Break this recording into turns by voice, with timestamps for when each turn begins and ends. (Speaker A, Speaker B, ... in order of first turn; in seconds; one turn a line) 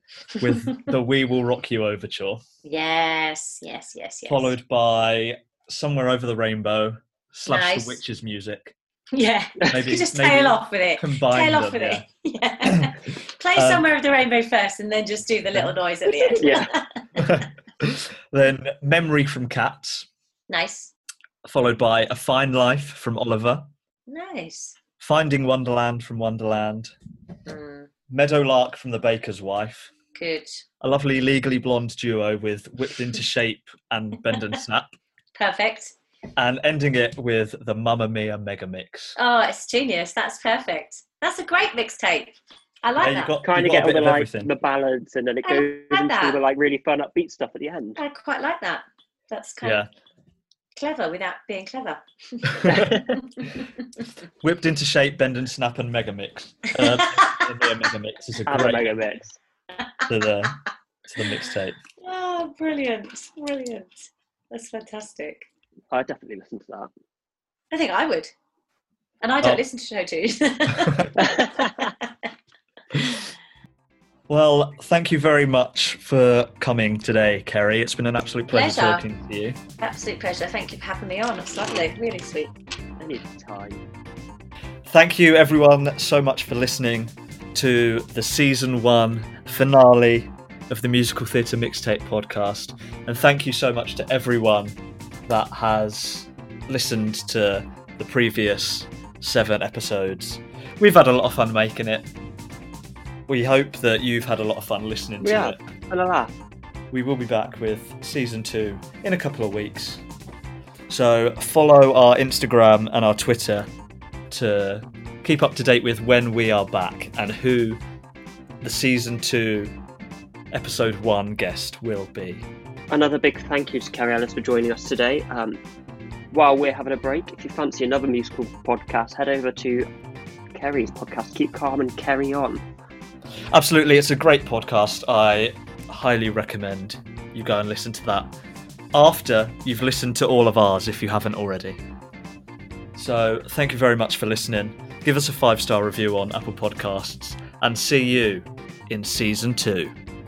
Speaker A: 0.4-2.4
Speaker B: 2.6-4.5
Speaker A: 4.3-8.7
Speaker B: 7.5-8.0
Speaker B: 9.1-17.4
Speaker A: 9.7-12.0
Speaker A: 13.6-13.8
Speaker C: 16.3-16.7
Speaker A: 17.2-20.1
Speaker B: 20.5-20.9
Speaker A: 21.4-23.7
Speaker B: 24.1-24.8
Speaker A: 25.0-26.9
Speaker B: 27.4-27.9
Speaker A: 28.1-29.9
Speaker B: 30.1-30.6
Speaker A: 30.8-34.9
Speaker B: 35.4-35.9
Speaker A: 36.4-39.1
Speaker B: 39.2-43.4
Speaker A: 43.0-44.5
Speaker C: 43.4-48.0
Speaker B: 45.4-46.4
Speaker B: 48.0-49.8
Speaker A: 49.6-49.9
Speaker B: 50.8-53.0
Speaker A: 52.5-52.9
Speaker A: 54.4-59.0
Speaker B: 56.8-57.4
Speaker C: 58.5-59.4
Speaker A: 60.1-61.8
Speaker B: 62.0-65.5
Speaker C: 65.9-66.9
Speaker B: 67.7-68.3
Speaker B: 69.2-71.1
Speaker A: 70.8-71.1
Speaker C: 71.2-71.9
Speaker A: 74.3-79.6
Speaker B: 78.5-79.0
Speaker B: 79.8-82.5
Speaker C: 83.0-83.8
Speaker A: 84.9-94.7
Speaker A: 95.3-102.1
Speaker A: 103.3-105.6
Speaker C: 105.2-106.3
Speaker A: 106.9-110.0
Speaker A: 110.9-113.7
Speaker A: 114.3-117.8
Speaker A: 118.6-119.8
Speaker A: 120.5-122.5
Speaker C: 122.9-125.6
Speaker C: 126.3-129.9
Speaker C: 130.5-132.6
Speaker A: 133.5-138.3
Speaker A: 138.9-141.8
Speaker A: 142.9-149.9